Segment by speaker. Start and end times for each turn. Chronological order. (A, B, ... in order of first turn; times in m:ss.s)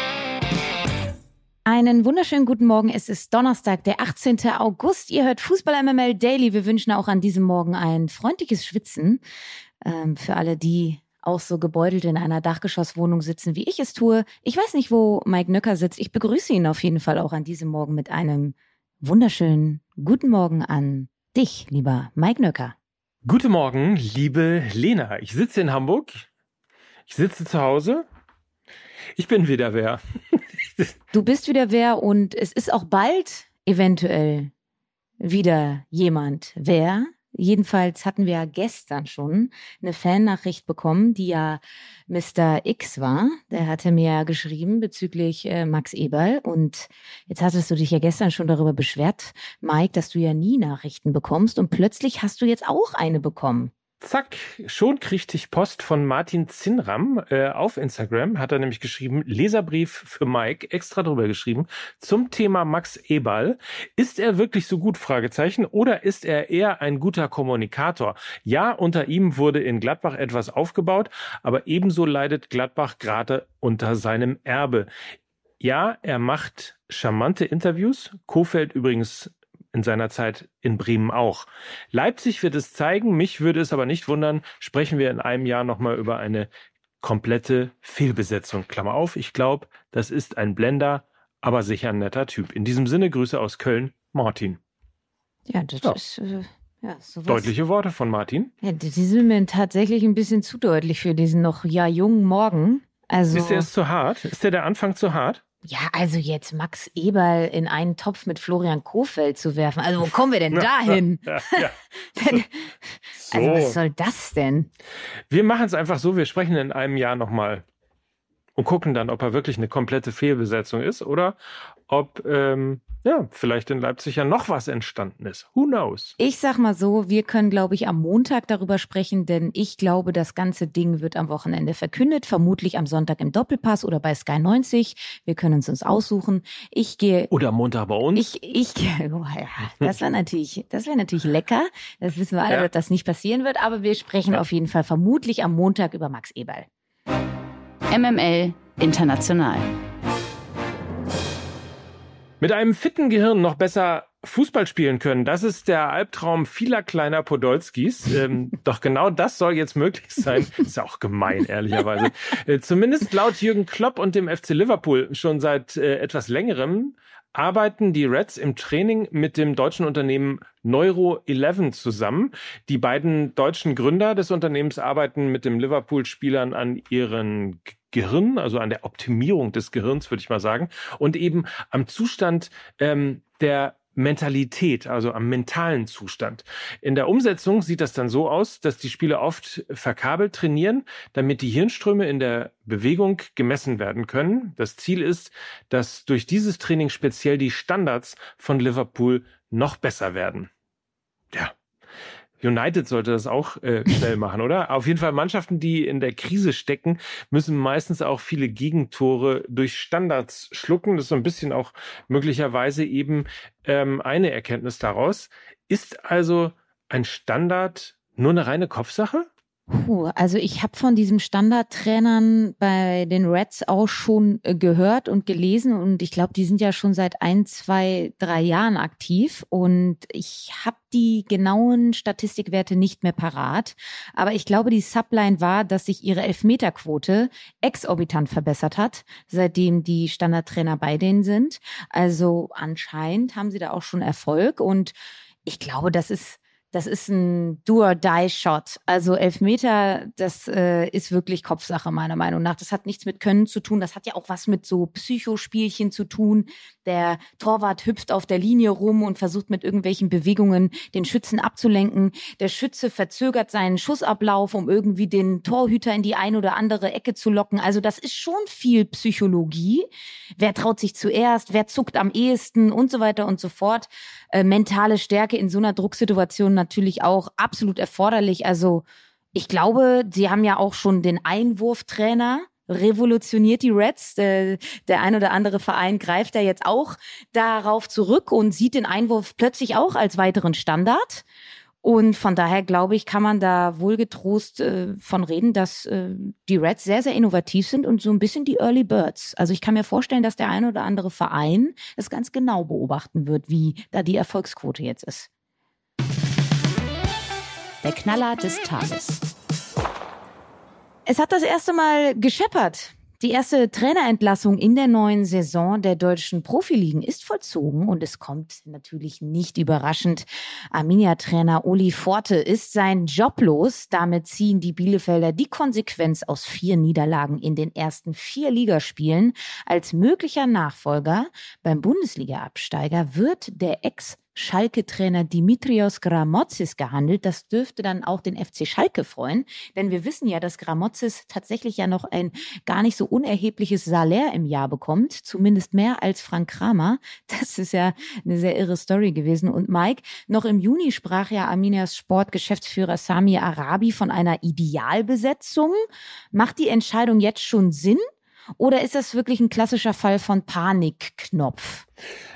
0:01.6-0:09.2 A
0:09.8-0:22.7 A
0:23.2-0:26.2 B
0:27.1-0:28.0 B
0:29.2-0:30.9 B
0:31.1-0:34.5 A
0:35.2-0:53.7 A
0:54.0-1:14.9 B
1:15.6-1:26.5 B
1:27.0-1:34.6 B
1:35.5-1:37.5 A
1:37.3-1:38.5 B
1:38.6-1:43.7 A
1:43.3-1:45.4 B
1:45.6-1:52.7 A
1:50.5-1:52.4 B
1:53.3-1:53.8 B
1:53.3-1:54.7 A
1:55.3-1:57.6 B
1:58.6-2:01.4 B
2:01.9-2:06.1 B
2:06.2-2:17.3 A
2:17.3-2:18.3 B
2:18.1-2:26.6 A
2:27.9-2:29.7 C
2:32.4-3:20.5 B
3:22.4-3:39.3 B
3:39.7-4:04.9 A
4:05.4-4:51.2 A
4:51.8-5:05.3 A
5:07.8-5:09.3 C
5:11.0-5:55.8 A
5:56.3-5:58.0 A
5:58.6-6:01.8 A